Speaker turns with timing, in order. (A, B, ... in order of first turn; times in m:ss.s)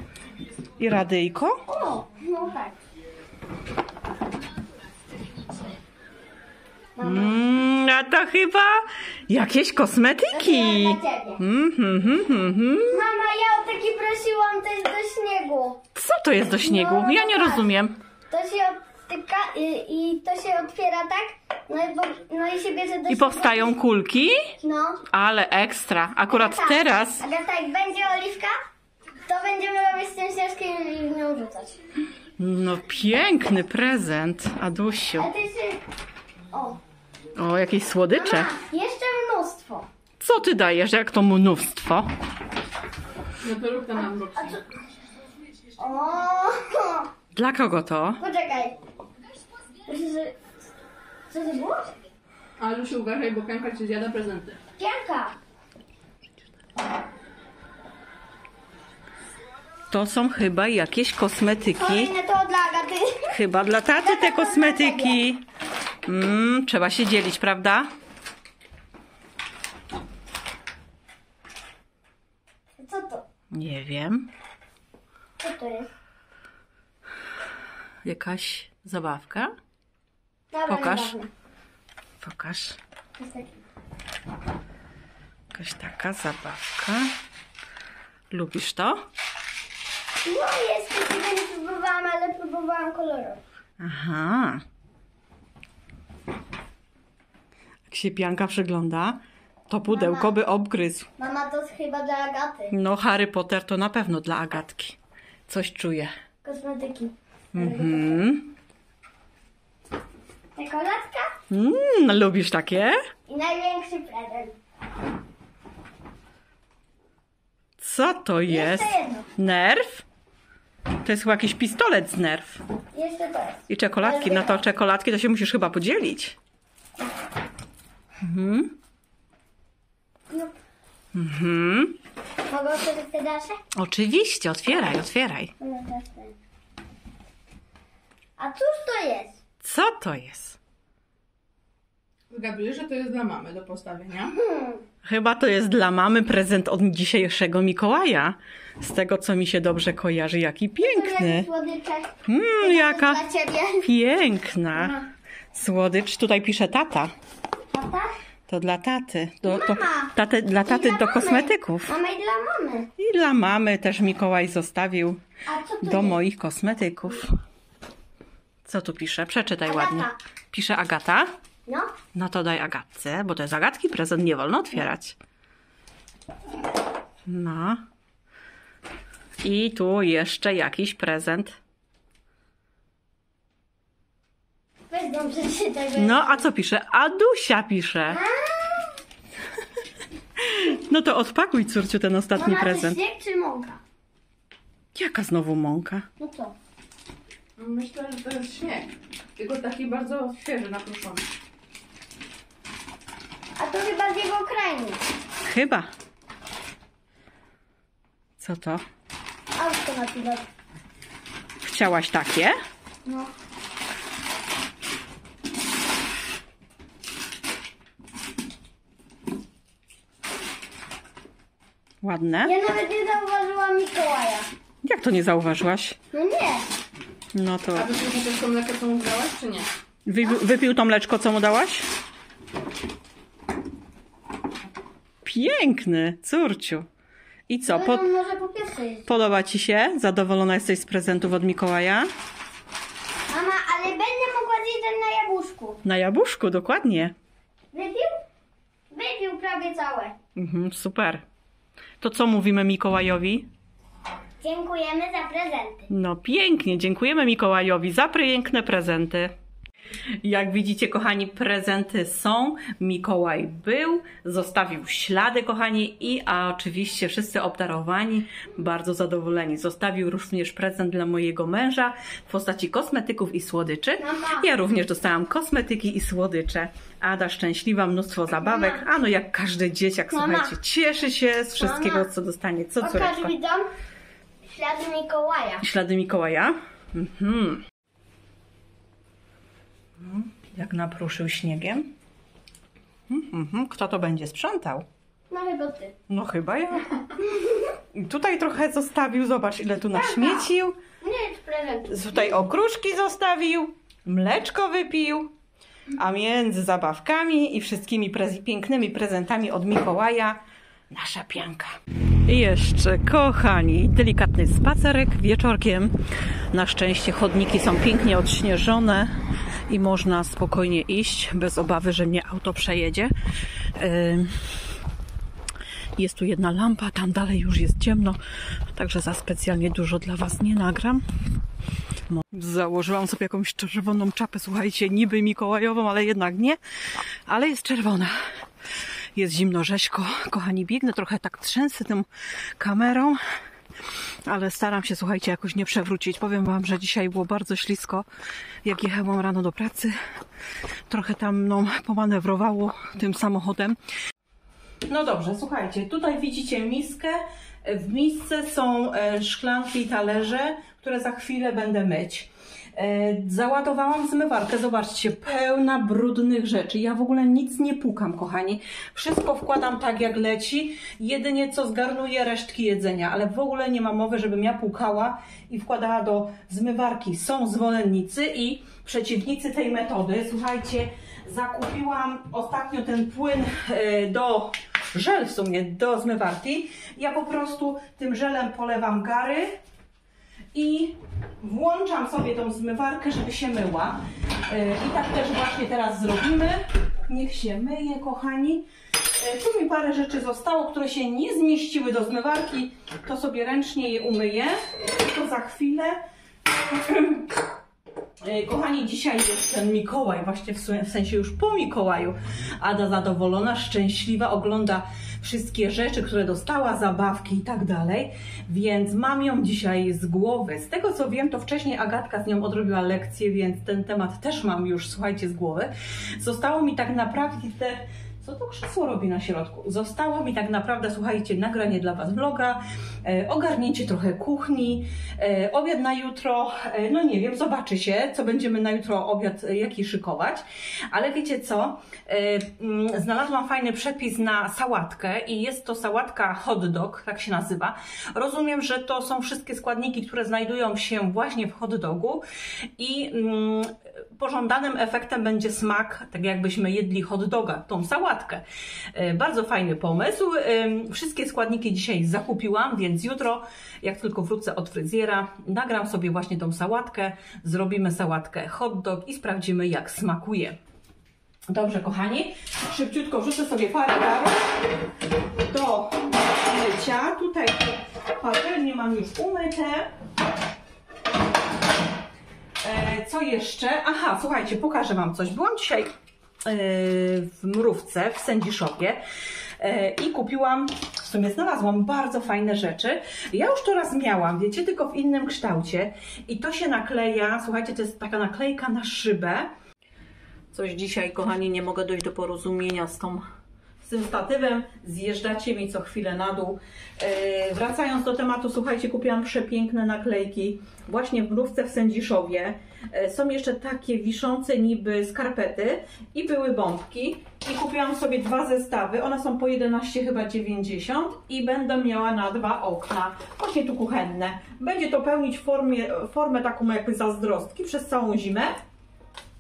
0:00.8-0:01.6 A
0:01.7-0:02.8 B
0:07.0-0:07.3 B
0:07.0-0:13.0 A
0:10.3-0:11.4 B
0:12.9-0:15.8 B
0:15.9-0:17.9 A
0:16.6-0:17.6 B
0:18.3-0:23.7 B
0:23.1-0:24.5 A
0:24.6-0:25.0 B
0:25.1-0:27.2 A
0:26.3-0:28.5 B
0:29.3-0:31.8 B
0:32.4-0:35.3 A
0:35.2-0:35.8 B
0:36.5-0:36.8 B
0:37.4-0:38.5 A
0:38.2-0:39.9 B
0:40.2-0:42.1 A
0:43.4-0:44.6 C
0:44.3-0:44.6 B
0:45.8-0:47.1 B
0:47.3-0:48.2 A
0:48.2-0:48.8 B
0:49.8-0:50.3 B
0:51.3-0:51.9 B
0:52.6-0:54.6 C
0:54.8-0:55.4 B
0:59.9-1:02.1 A
1:01.8-1:03.3 B
1:03.3-1:05.4 A
1:03.9-1:05.2 B
1:06.0-1:07.9 A
1:12.8-1:13.2 B
1:13.5-1:14.3 A
1:15.4-1:15.9 B
1:18.0-1:19.5 A
1:20.5-1:21.3 B
1:20.7-1:21.1 A
1:22.2-1:22.8 A
1:23.2-1:23.6 B
1:25.5-1:27.1 A
1:28.3-1:29.0 A
1:30.2-1:33.4 B
1:33.8-1:34.6 A
1:37.9-1:41.1 A
1:39.9-1:40.3 B
1:41.2-1:42.7 B
1:42.7-1:45.0 A
1:45.5-1:46.1 A
1:46.4-1:48.2 B
1:47.5-1:48.5 A
1:50.6-1:51.4 B
1:51.5-1:53.0 A
1:53.3-1:54.5 B
1:57.8-2:00.0 A
1:58.5-1:59.3 B
2:01.0-2:02.6 A
2:02.9-2:04.6 B
2:03.7-2:06.4 A
2:08.2-2:08.7 A
2:11.1-2:12.0 A
2:12.5-2:13.6 B
2:13.7-2:15.5 A
2:15.6-2:16.4 B
2:18.4-2:19.4 B
2:19.6-2:20.6 A
2:22.3-2:24.3 C
2:24.3-2:24.8 B
2:25.0-2:31.5 A
2:30.8-2:33.9 B
2:32.2-2:33.2 A
2:33.8-2:37.1 A
2:37.7-2:38.2 B
2:38.5-2:41.9 A
2:39.4-2:40.1 B
2:40.6-2:42.9 B
2:43.0-2:45.2 A
2:45.5-2:46.2 B
2:45.8-2:47.4 A
2:48.6-2:51.3 A
2:49.7-2:50.2 B
2:52.1-2:55.2 A
2:57.2-2:57.8 A
2:59.4-3:01.6 A
3:04.9-3:06.4 B
3:06.0-3:08.2 A
3:08.1-3:08.9 B
3:10.4-3:13.0 A
3:12.4-3:13.8 B
3:14.9-3:16.1 A
3:16.2-3:16.6 B
3:17.6-3:21.2 C
3:23.6-3:25.0 B
3:25.4-3:25.9 A
3:28.4-3:28.8 A
3:29.6-3:30.4 B
3:31.6-3:32.6 A
3:33.0-3:33.3 B
3:42.0-3:42.5 A
3:42.4-3:44.5 B
3:44.8-3:46.0 A
3:46.1-3:46.7 B
3:47.3-3:47.9 A
3:47.8-3:49.7 C
3:50.1-3:51.9 A
3:55.2-3:56.9 A
3:57.5-3:58.0 A
3:57.7-3:59.1 B
3:59.1-4:02.1 A
4:03.3-4:05.8 B
4:05.8-4:07.1 A
4:07.7-4:08.1 B
4:08.9-4:10.1 B
4:10.4-4:11.2 A
4:12.0-4:13.5 A
4:14.4-4:15.9 B
4:15.9-4:19.3 A
4:20.2-4:43.3 A
4:34.0-4:34.5 B
4:38.5-4:38.8 B
4:40.1-4:40.5 B
4:41.6-4:42.1 B
4:42.8-4:43.7 B
4:44.4-4:45.6 B
4:45.6-4:47.6 A
4:50.0-4:51.9 A
4:53.1-4:54.9 A
4:55.3-4:55.9 B
4:56.1-4:57.2 A
4:57.9-5:00.8 A
4:59.9-5:00.5 B
5:01.0-5:02.0 B
5:01.9-5:05.3 A
5:05.9-5:16.0 A
5:16.5-5:19.2 A
5:19.7-5:23.1 A
5:23.8-5:24.4 A
5:26.0-5:28.2 A
5:28.7-5:31.0 A
5:32.1-5:36.6 A
5:37.3-5:38.2 A
5:39.1-5:42.1 A
5:42.6-5:43.2 A
5:44.2-5:48.0 A
5:48.6-5:49.9 A
5:50.9-5:53.8 A
5:54.9-6:29.6 A
6:30.5-6:38.6 A
6:39.2-6:46.0 A
6:46.7-6:47.3 A
6:48.2-7:32.2 A
7:32.8-7:38.4 A
7:38.9-7:50.6 A
7:51.5-7:54.4 A
7:55.4-7:59.9 A
8:02.6-8:05.9 A
8:06.4-8:09.0 A
8:09.6-8:19.5 A
8:20.5-8:23.2 A
8:23.8-8:48.6 A